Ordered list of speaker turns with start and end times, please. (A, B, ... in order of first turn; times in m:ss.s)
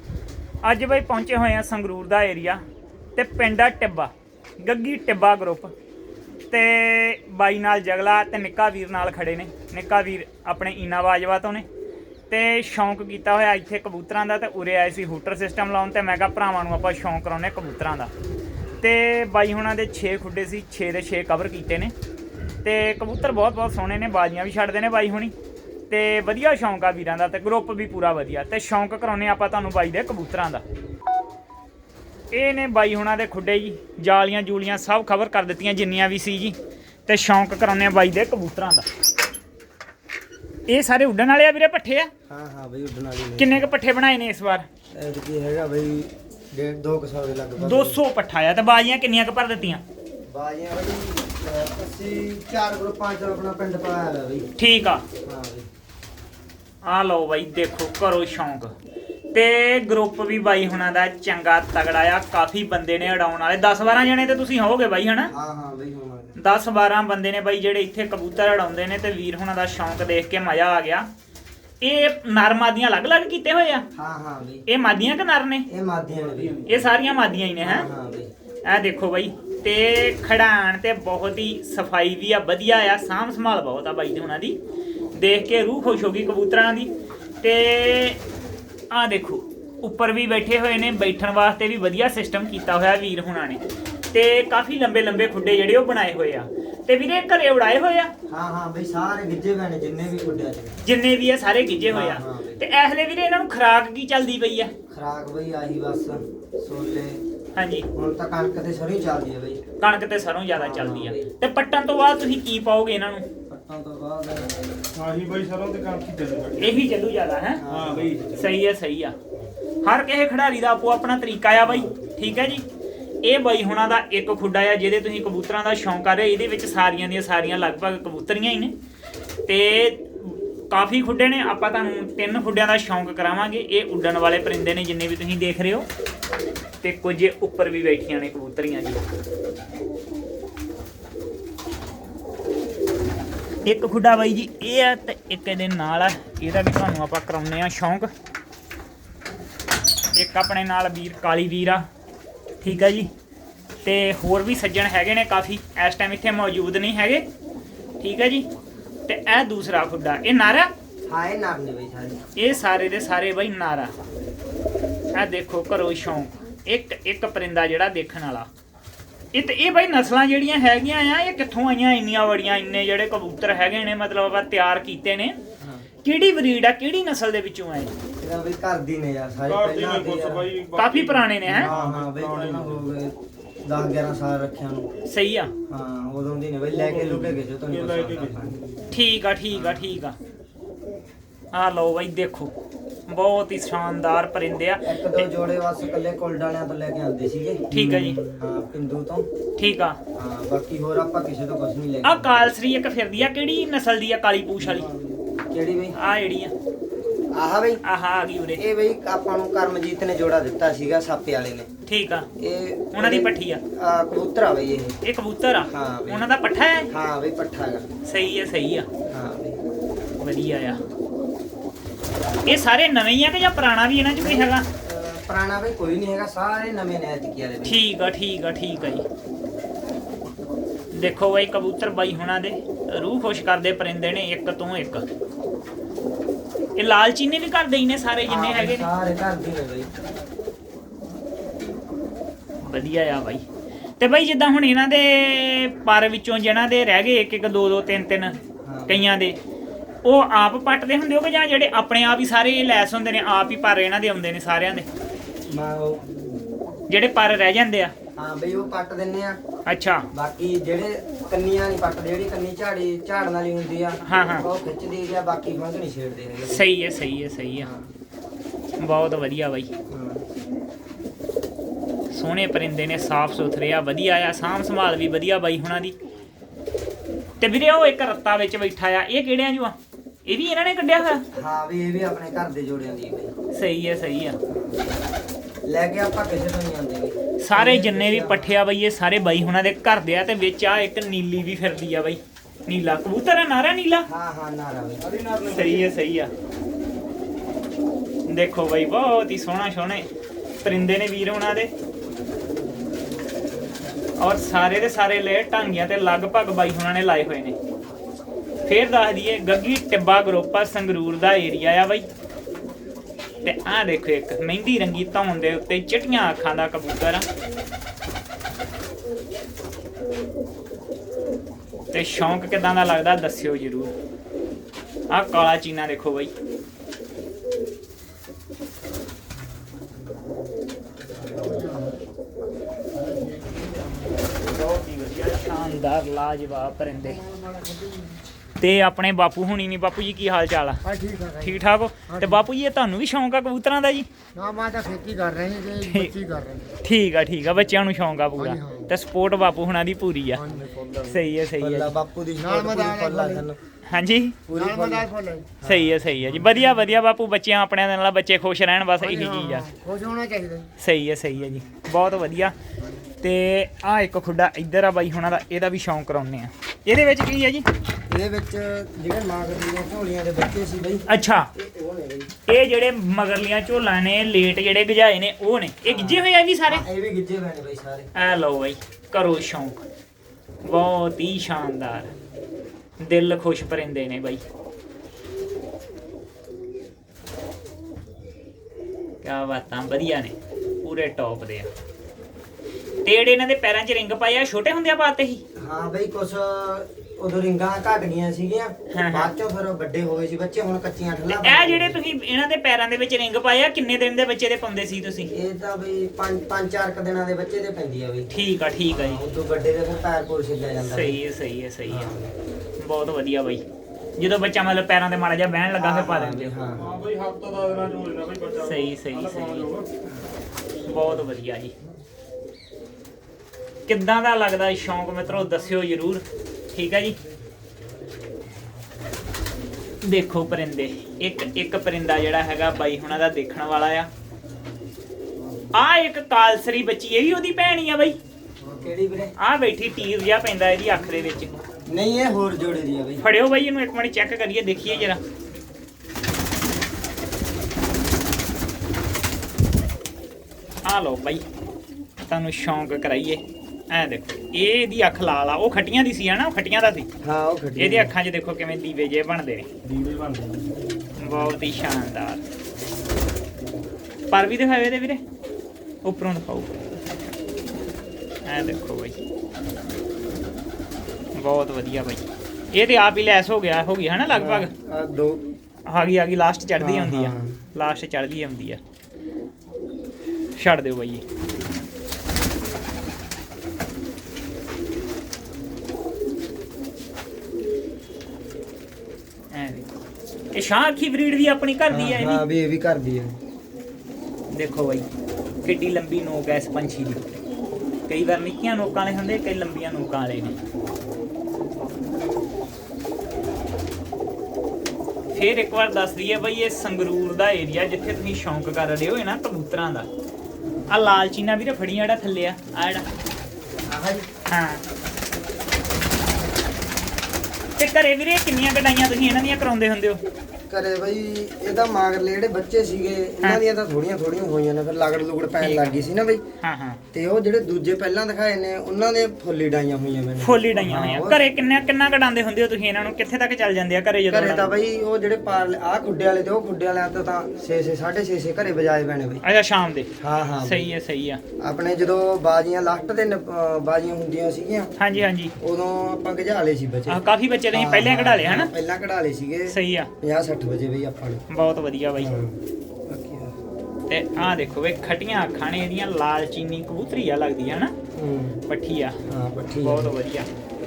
0:00.6-0:02.6 A
0:03.2-0:05.7 A
0:06.5-0:11.7 A
0:12.3-0:18.1 A
0:18.8-0:21.9 A
0:22.6-0:25.3 A
0:25.9-0:30.6 A
0:32.3-0:36.6 A
0:37.1-0:38.9 A
0:40.7-0:42.1 A
0:42.3-0:43.7 B
0:43.4-0:44.6 A
0:44.9-0:48.0 B
0:47.6-0:49.8 A
0:50.2-0:54.5 B
0:54.6-0:55.0 A
0:55.2-0:55.7 B
0:56.8-0:58.7 A
0:59.3-1:05.3 A
1:05.3-1:06.3 B
1:06.4-1:11.1 A
1:11.8-1:13.8 A
1:13.9-1:14.6 B
1:14.7-1:15.7 A
1:15.7-1:16.8 B
1:16.6-1:17.8 A
1:17.6-1:18.3 B
1:18.6-1:24.6 A
1:25.1-1:26.9 A
1:27.4-1:28.2 A
1:28.9-1:33.6 A
1:34.1-1:38.1 A
1:38.3-1:40.8 B
1:40.8-1:44.7 A
1:41.9-1:42.6 B
1:44.9-1:47.2 B
1:47.6-1:47.8 A
1:47.9-1:49.6 B
1:49.8-1:53.2 A
1:50.5-1:51.3 B
1:53.5-1:54.9 B
1:55.0-1:56.5 C
1:56.6-1:57.6 A
1:57.5-1:58.5 B
1:57.7-1:58.1 C
1:58.3-1:59.1 A
1:59.8-2:02.6 A
2:03.2-2:08.7 A
2:09.5-2:15.9 A
2:16.8-2:19.0 A
2:23.6-2:28.1 A
2:30.1-2:31.8 A
2:32.6-2:33.1 A
2:33.8-2:37.2 A
2:38.0-2:38.4 A
2:39.1-2:40.7 A
2:41.1-2:42.2 B
2:42.4-2:43.9 A
2:45.1-2:48.5 A
2:49.3-2:55.4 A
2:55.6-2:55.8 B
2:56.0-2:57.9 A
2:58.2-3:00.5 B
2:59.7-3:00.7 C
3:00.7-3:01.7 A
3:01.5-3:04.9 B
3:01.8-3:02.2 C
3:05.1-3:05.5 A
3:05.7-3:08.6 B
3:08.9-3:10.2 A
3:09.5-3:09.9 B
3:11.5-3:12.5 A
3:13.1-3:15.2 A
3:14.8-3:19.3 B
3:17.7-3:18.2 A
3:19.6-3:20.0 A
3:20.1-3:22.3 B
3:22.0-3:24.9 A
3:24.6-3:26.0 B
3:25.9-3:26.5 A
3:27.3-3:27.8 B
3:27.8-3:28.6 A
3:28.6-3:31.7 B
3:31.8-3:32.3 A
3:32.4-3:35.0 B
3:32.9-3:33.6 A
3:35.0-3:36.9 A
3:35.7-3:36.3 B
3:36.9-3:37.9 B
3:38.0-3:38.9 A
3:39.1-3:39.6 B
3:40.2-3:40.8 A
3:42.4-3:44.6 A
3:44.2-3:47.8 B
3:47.6-3:49.0 A
3:48.8-3:49.0 B
3:50.9-3:55.0 A
3:56.8-3:58.9 A
3:58.3-3:59.9 B
4:02.6-4:03.4 A
4:04.0-4:08.4 A
4:08.6-4:09.1 B
4:08.9-4:09.4 A
4:10.0-4:14.9 A
4:15.5-4:16.1 B
4:16.9-4:17.9 A
4:18.2-4:19.4 B
4:19.6-4:20.0 A
4:20.1-4:26.6 B
4:24.0-4:24.4 A
4:26.4-4:27.7 A
4:27.6-4:27.9 B
4:28.8-4:29.7 A
4:29.9-4:30.2 B
4:32.1-4:36.0 A
4:37.4-4:41.2 A
4:41.3-4:43.3 B
4:43.5-4:44.4 A
4:44.5-4:44.8 B
4:45.6-4:48.6 B
4:47.4-4:54.1 A
4:54.1-4:55.0 B
4:55.4-4:56.3 A
4:58.3-5:00.0 A
5:00.6-5:01.7 A
5:04.2-5:07.6 A
5:08.6-5:12.1 A
5:13.4-5:17.3 A
5:21.9-5:23.9 A
5:25.1-5:26.3 A
5:31.2-5:32.0 D
5:32.9-5:33.9 D
5:34.5-5:37.2 A
5:37.0-5:38.2 D
5:38.6-5:40.8 A
5:40.8-5:42.4 D
5:41.4-5:44.1 A
5:44.4-5:46.8 D
5:45.8-5:46.1 A
5:46.8-5:50.4 A
5:48.4-5:48.9 D
5:50.3-5:51.2 D
5:51.0-5:51.9 A
5:51.6-5:53.6 B
5:52.4-5:53.4 D
5:53.8-5:54.4 A
5:54.5-5:55.1 B
5:54.5-5:55.6 D
5:55.6-5:56.5 B
5:55.6-5:59.7 A
5:59.0-6:00.7 D
6:00.8-6:02.5 A
6:03.2-6:07.7 A
6:08.1-6:12.3 B
6:11.1-6:11.5 A
6:12.5-6:16.8 A
6:15.9-6:18.1 B
6:18.1-6:19.8 A
6:20.6-6:22.1 A
6:23.0-6:24.4 A
6:29.2-6:31.7 A
6:33.0-6:35.4 A
6:35.6-6:42.0 B
6:38.9-6:39.3 A
6:41.3-6:45.3 A
6:45.3-6:48.3 B
6:48.3-6:49.2 A
6:48.9-6:51.2 B
6:50.8-6:52.1 A
6:51.9-6:52.3 B
6:52.8-6:53.6 A
6:54.2-6:56.5 A
6:55.8-6:57.0 B
6:57.0-6:58.6 C
6:58.6-6:59.7 A
7:00.8-7:01.7 A
7:03.9-7:07.2 A
7:10.0-7:14.1 A
7:15.7-7:18.2 A
7:18.6-7:19.3 B
7:19.4-7:21.5 A
7:21.9-7:23.2 B
7:23.2-7:25.2 A
7:30.8-7:31.4 A
7:32.3-7:37.1 A
7:37.2-7:38.1 B
7:37.8-7:39.7 A
7:40.0-7:40.6 C
7:41.2-7:42.4 A
7:44.3-7:45.2 A
7:46.0-7:46.8 A
7:48.4-7:49.2 A
7:51.4-7:54.7 A
7:54.3-7:55.4 B
7:55.9-7:58.8 A
7:56.8-7:57.6 B
8:00.6-8:01.2 A
8:09.5-8:09.9 A
8:10.5-8:12.4 A
8:11.9-8:13.4 B
8:14.5-8:15.0 A
8:15.6-8:17.2 A
8:18.1-8:20.6 A
8:25.3-8:30.1 A
8:30.9-8:33.1 A
8:33.9-8:34.3 B
8:34.5-8:34.8 A
8:37.8-8:40.2 A
8:40.7-8:46.4 B
8:45.6-8:46.0 A
8:46.6-8:47.0 A
8:47.1-8:51.4 B
8:50.4-8:54.7 A
8:54.3-8:59.4 B
8:59.4-9:00.1 A
9:00.2-9:00.9 B
9:00.6-9:01.4 A
9:01.6-9:04.9 B
9:05.0-9:05.5 A
9:05.6-9:11.4 B
9:07.1-9:08.7 A
9:09.7-9:10.1 A
9:11.5-9:12.3 A
9:12.2-9:13.5 B
9:14.1-9:17.9 A
9:18.2-9:18.6 B
9:18.7-9:19.2 A
9:19.3-9:20.1 B
9:19.8-9:20.5 A